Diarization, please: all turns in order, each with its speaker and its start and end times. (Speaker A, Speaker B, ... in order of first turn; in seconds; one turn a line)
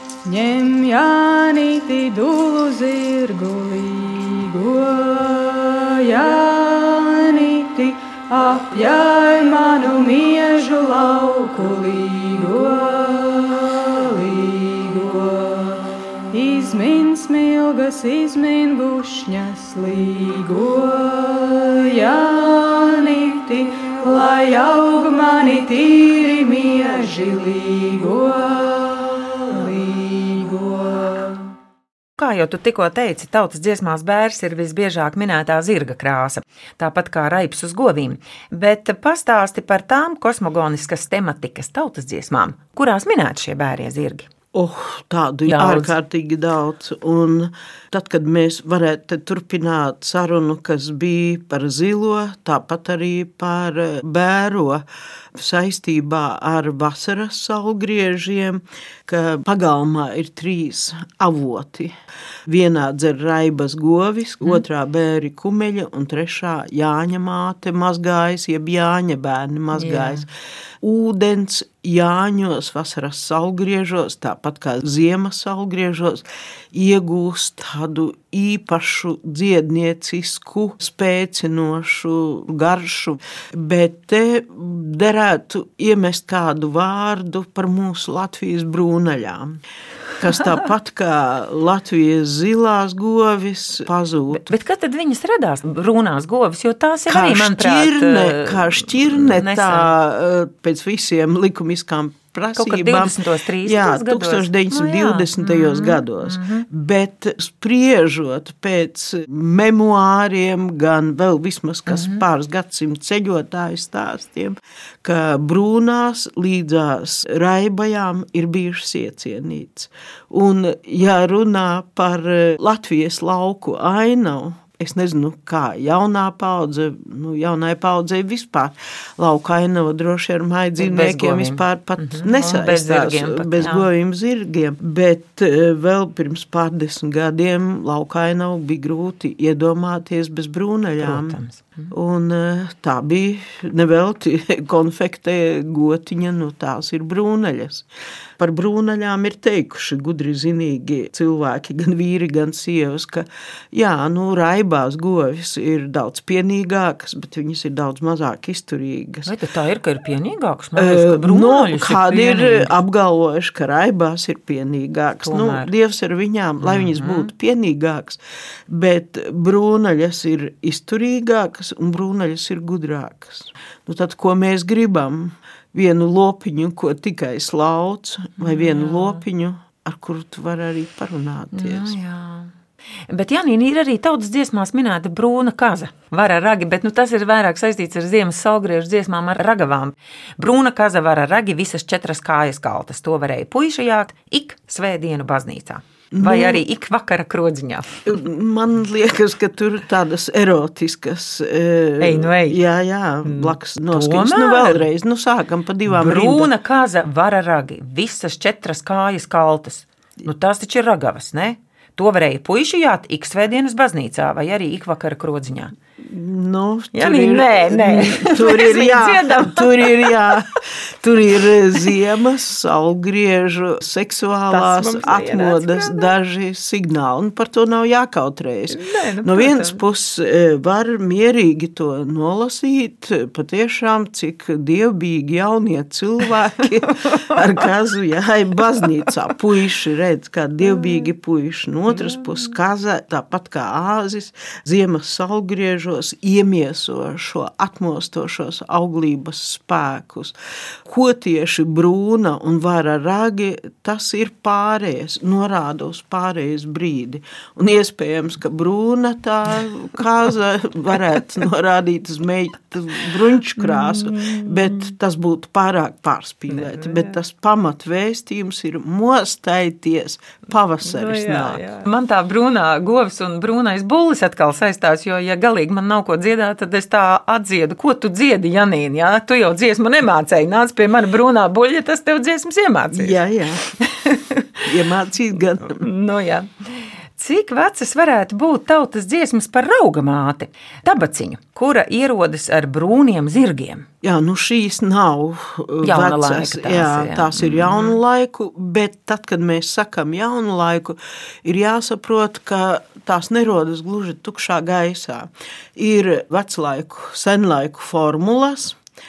Speaker A: 0.2-31.5
Speaker B: 32.2-44.3
Speaker C: 44.5-61.9
Speaker B: 45.5-45.9
Speaker C: 62.5-70.3
Speaker B: 69.7-70.3
Speaker C: 70.8-89.6
Speaker C: 90.2-94.5
Speaker B: 94.3-99.9
Speaker C: 97.1-147.9
Speaker B: 102.6-106.7
Speaker B: 111.9-112.2
Speaker B: 130.8-133.9
Speaker B: 141.0-141.9
Speaker C: 148.4-159.3
Speaker B: 159.2-162.8
Speaker C: 160.8-181.9
Speaker B: 165.2-165.7
Speaker B: 166.6-167.3
Speaker B: 178.4-179.2
Speaker B: 181.5-182.5
Speaker B: 183.1-197.9
Speaker C: 196.1-196.6
Speaker C: 198.1-206.5
Speaker B: 202.0-202.6
Speaker B: 203.2-204.8
Speaker B: 205.9-215.7
Speaker C: 216.0-271.7
Speaker B: 216.9-220.2
Speaker B: 224.5-226.1
Speaker B: 228.7-229.8
Speaker B: 263.6-264.9
Speaker B: 266.5-267.1
Speaker B: 270.8-283.2
Speaker C: 282.9-283.6
Speaker B: 283.8-284.6
Speaker C: 284.6-285.9
Speaker B: 285.6-293.9
Speaker C: 294.0-308.8
Speaker B: 295.8-298.0